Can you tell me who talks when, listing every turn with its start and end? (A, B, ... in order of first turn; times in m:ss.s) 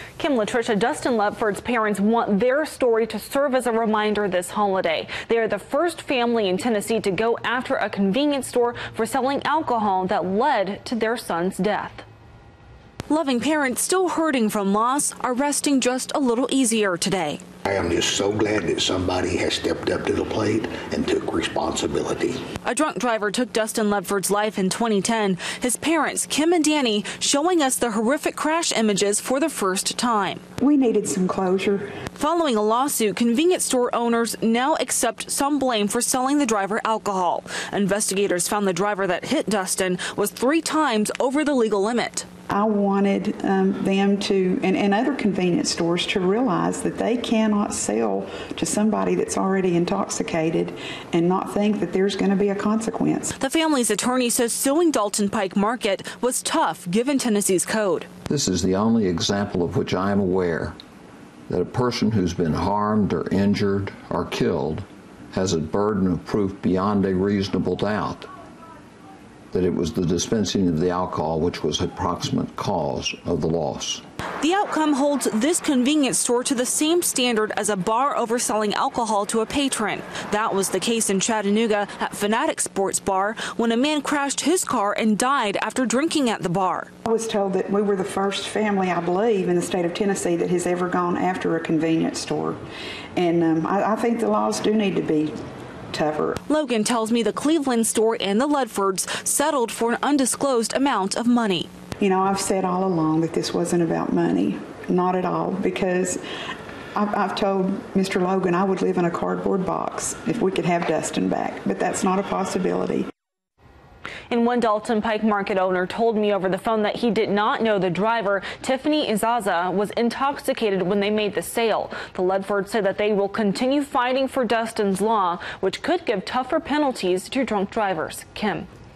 0:00.2-0:12.0 A
0:13.1-0:17.4 A
0:17.6-0:22.4 B
0:22.6-0:30.4 A
0:30.6-0:31.9 C
0:32.2-0:42.3 A
0:42.5-0:53.3 C
0:53.4-0:58.1 A
0:58.3-1:00.8 D
1:01.5-1:08.3 D
1:09.5-1:14.0 D
1:14.4-1:26.9 A
1:27.0-1:32.6 C
1:33.1-1:35.3 C
1:35.9-1:36.4 C
1:36.5-1:41.7 A
1:42.0-1:46.2 C
1:46.9-1:53.1 C
1:54.3-2:08.7 A